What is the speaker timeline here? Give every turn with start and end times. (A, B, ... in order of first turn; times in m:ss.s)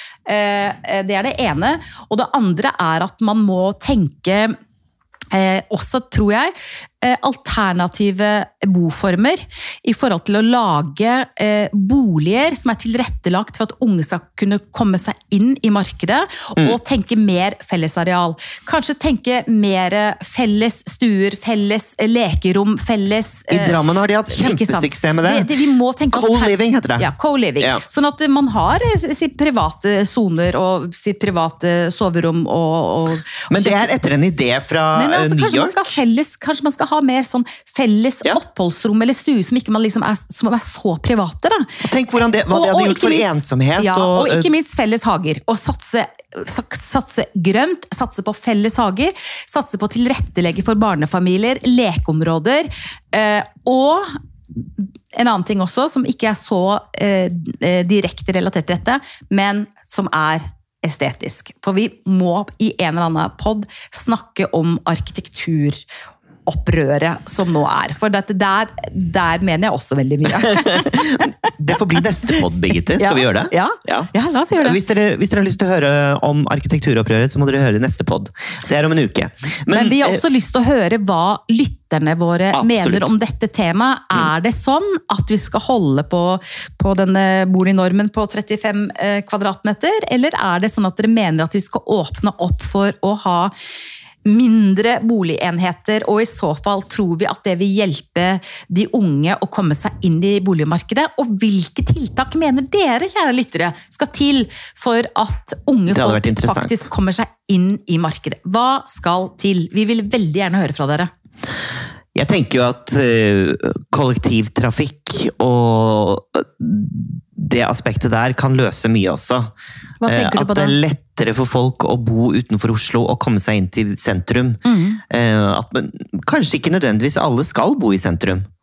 0:00.3-0:04.5 A
0:05.3-0:33.9 A
0:23.5-0:25.5 B
0:26.1-0:27.1 B
0:33.5-0:35.9 B
0:34.9-0:41.7 A
0:41.8-0:44.5 B
0:42.5-0:54.1 A
0:54.8-1:05.8 A
1:06.5-1:11.5 A
1:10.4-1:20.2 B
1:13.0-1:14.8 A
1:19.7-1:33.5 A
1:22.5-1:23.1 B
1:34.2-1:51.1 A
1:45.9-1:46.8 B
1:52.1-1:59.5 B
2:00.0-2:00.8 A
2:00.0-2:08.4 B
2:04.6-2:05.0 A